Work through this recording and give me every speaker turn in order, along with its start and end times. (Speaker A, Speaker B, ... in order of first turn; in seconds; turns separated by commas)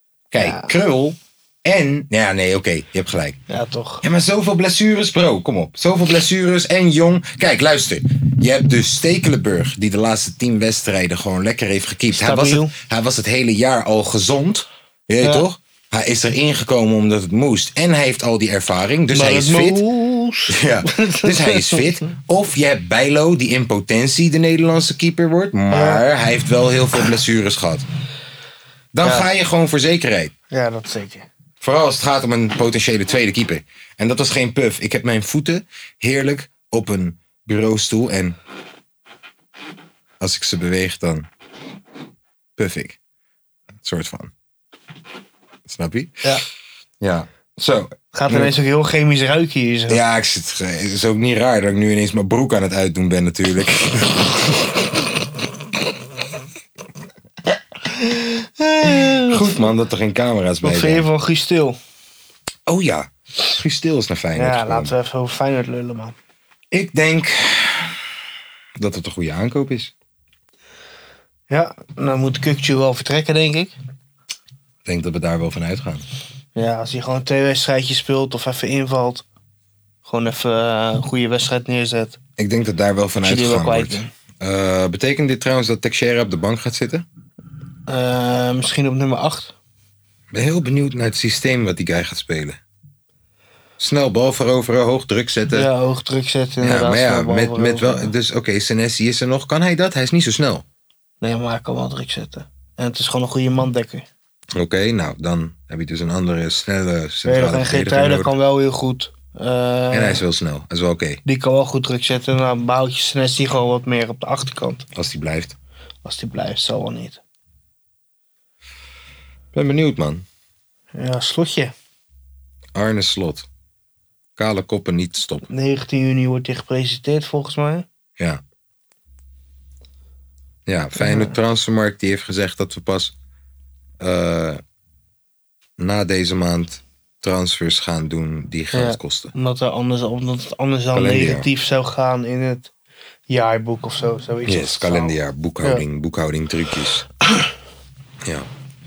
Speaker A: 0.3-3.4, Speaker B: 0.4-0.7, Speaker B: 3.5-4.0, Speaker A: 4.0-19.8, Speaker B: 12.1-12.7, Speaker B: 19.1-21.9, Speaker A: 20.5-27.8, Speaker B: 25.7-26.0, Speaker A: 28.9-30.3, Speaker B: 29.0-29.3, Speaker B: 30.5-31.3, Speaker A: 31.6-38.4, Speaker A: 40.2-41.3, Speaker A: 42.6-43.0, Speaker A: 43.8-44.3, Speaker A: 45.6-46.3, Speaker A: 47.0-48.5, Speaker B: 48.1-50.0, Speaker A: 49.9-54.9, Speaker B: 58.0-59.6, Speaker A: 58.8-61.1, Speaker B: 60.6-61.8, Speaker A: 62.7-64.9, Speaker B: 64.3-66.2, Speaker A: 66.7-68.0, Speaker A: 68.8-69.9, Speaker B: 71.5-73.7, Speaker A: 74.8-76.0, Speaker B: 76.5-79.2, Speaker B: 80.0-82.2, Speaker A: 82.4-87.0, Speaker B: 83.2-84.1, Speaker B: 87.9-89.5, Speaker A: 90.3-92.6, Speaker A: 93.8-95.7, Speaker B: 95.5-98.1, Speaker A: 96.6-100.6, Speaker B: 101.2-104.0, Speaker A: 104.5-108.3, Speaker B: 107.2-110.2, Speaker A: 109.9-111.2, Speaker B: 111.2-114.8, Speaker A: 114.9-115.5, Speaker B: 116.0-117.2, Speaker A: 119.5-120.2, Speaker B: 120.9-121.7, Speaker A: 122.7-123.5, Speaker A: 124.4-125.5, Speaker B: 125.5-127.8, Speaker A: 130.7-133.1, Speaker B: 131.0-131.3, Speaker A: 134.0-134.6, Speaker A: 135.8-139.3, Speaker B: 138.7-142.7, Speaker A: 140.9-141.4, Speaker B: 143.3-145.8, Speaker A: 144.5-147.0, Speaker A: 148.2-148.5